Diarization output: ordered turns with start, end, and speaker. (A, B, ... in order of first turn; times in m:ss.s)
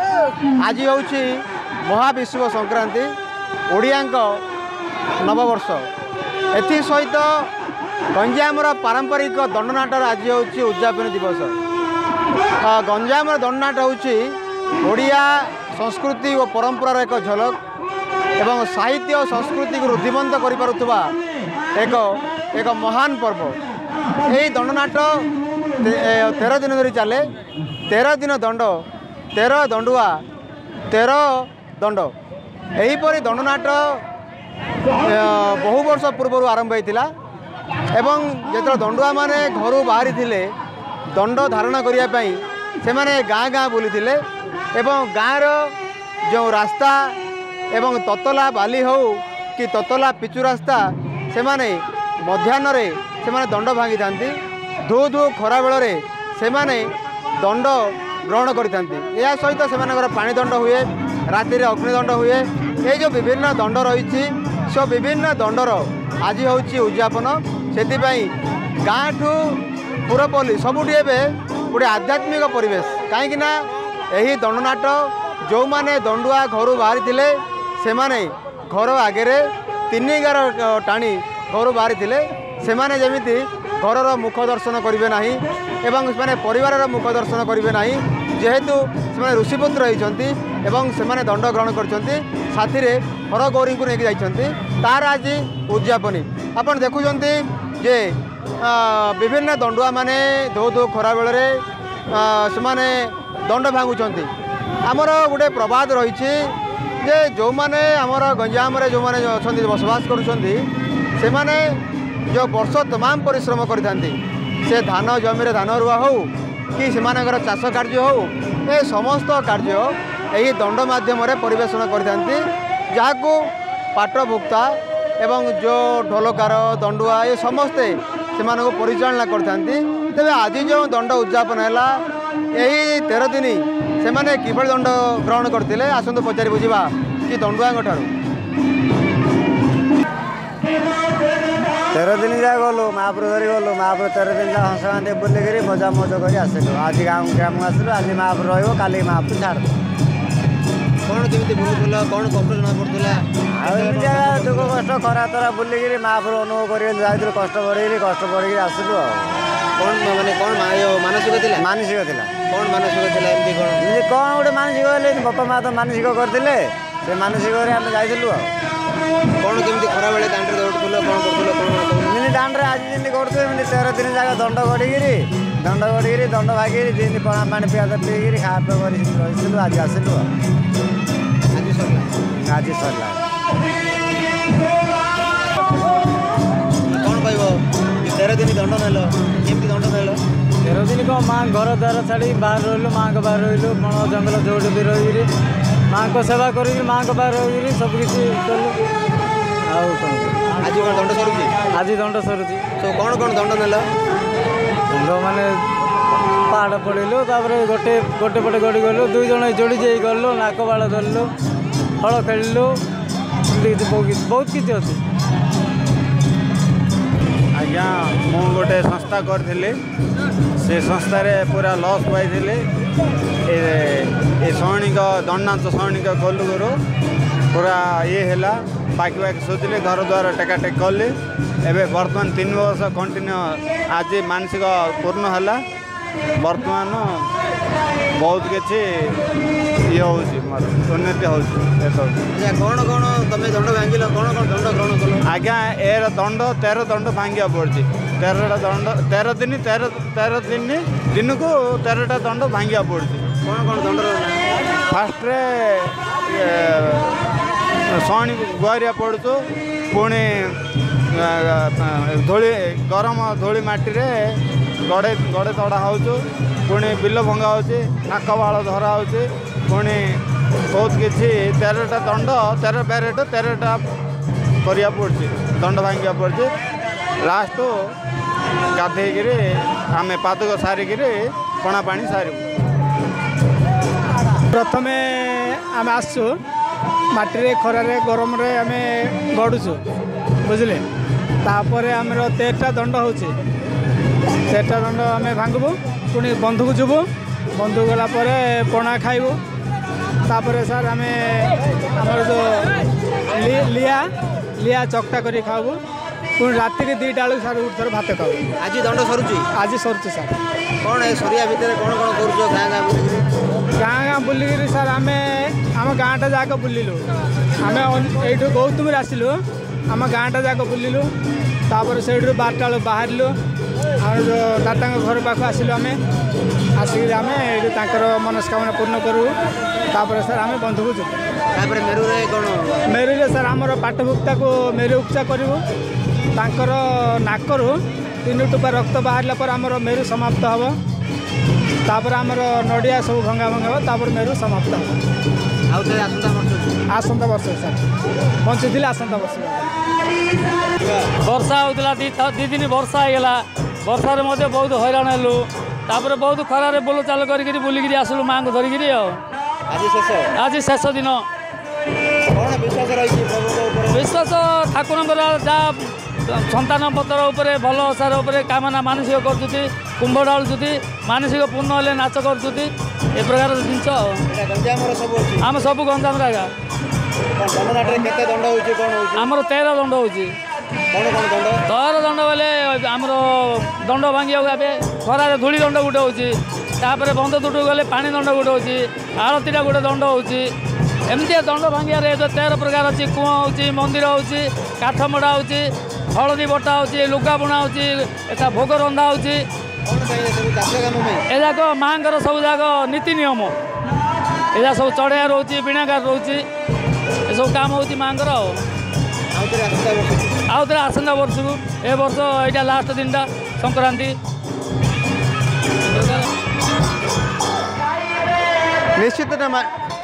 0:00.6-0:03.1 A
0:03.7-0:04.4 A
0:05.2-0:05.9 A
0:06.5-0:07.5 A
0:08.1-0:11.5 A
0:12.6-0:17.6 A
0:18.4-0:21.1 A
0:21.8-0:23.6 A
0:24.3-0:25.2 A
0:25.8-0:27.3 A
0:27.9-0:30.2 A
0:30.9-0:32.1 A
0:32.8-0:34.0 A
0:35.0-0:37.1 A
0:38.0-0:40.5 A
0:41.2-0:44.2 A
0:44.8-0:45.6 A
0:46.3-0:47.1 A
0:47.7-1:08.3 A
1:08.8-1:13.6 A
1:14.1-1:44.3 A
1:44.8-1:50.6 A
1:51.2-1:51.8 A
1:52.3-2:12.0 A
2:12.6-2:18.1 A
2:21.9-2:29.7 B
2:31.1-2:34.8 A
2:33.5-2:39.4 B
2:39.8-2:41.6 A
2:41.6-2:42.3 B
2:42.5-2:43.8 A
2:43.8-2:48.5 B
2:49.4-2:52.1 A
2:52.0-3:00.3 B
3:01.5-3:02.1 A
3:02.3-3:03.2 B
3:06.9-3:10.2 A
3:10.6-3:15.3 C
3:15.9-3:18.8 C
3:19.7-3:20.5 C
3:20.6-3:21.5 A
3:21.7-3:22.6 C
3:22.8-3:23.9 A
3:24.9-3:25.6 C
3:26.5-3:31.3 C
3:32.0-3:32.8 C
3:33.5-3:35.0 C
3:37.5-3:39.8 D
3:40.6-3:42.6 D
3:43.5-3:46.8 D
3:47.5-3:55.6 D
3:56.4-3:57.3 D
3:58.2-3:59.2 D
3:59.9-4:02.2 D
4:02.3-4:05.2 A
4:05.3-4:13.3 D
4:13.4-4:14.4 A
4:14.9-4:17.2 D
4:17.9-4:20.6 D
4:21.1-4:30.2 D
4:30.7-4:33.8 D
4:34.6-4:36.5 D
4:37.2-4:37.9 D
4:38.7-4:39.4 D
4:39.9-4:42.4 D
4:44.5-4:46.4 E
4:47.1-4:49.8 E
4:50.4-4:50.8 E
4:51.4-4:53.4 E
4:54.5-4:59.4 E
5:00.2-5:02.7 E
5:03.3-5:05.8 E
5:06.4-5:08.4 E
5:08.6-5:09.5 A
5:09.5-5:10.3 E
5:10.8-5:13.3 A
5:13.8-5:17.0 E
5:17.6-5:21.1 E
5:21.7-5:23.3 E
5:24.0-5:26.0 E
5:26.8-5:29.3 E
5:29.9-5:31.2 E
5:31.5-5:32.8 A
5:32.9-5:35.6 E
5:36.3-5:40.7 E
5:41.8-5:45.0 E
5:45.7-5:46.8 A
5:46.9-5:47.8 E
5:48.4-5:49.7 E
5:50.8-5:51.1 A
5:51.2-5:59.2 F
5:59.7-6:00.3 A
6:00.4-6:01.2 F
6:02.3-6:04.0 A
6:03.9-6:14.2 F
6:14.3-6:15.5 A
6:15.4-6:16.5 F
6:17.4-6:19.3 A
6:19.2-6:20.3 F
6:20.9-6:21.6 A
6:21.7-6:30.5 F
6:31.1-6:39.4 F
6:39.8-6:41.2 A
6:41.3-6:43.5 F
6:44.5-6:46.4 F
6:47.3-6:48.6 F
6:49.3-6:50.4 A
6:50.5-6:54.2 F
6:55.9-6:56.3 F
6:59.0-6:59.7 A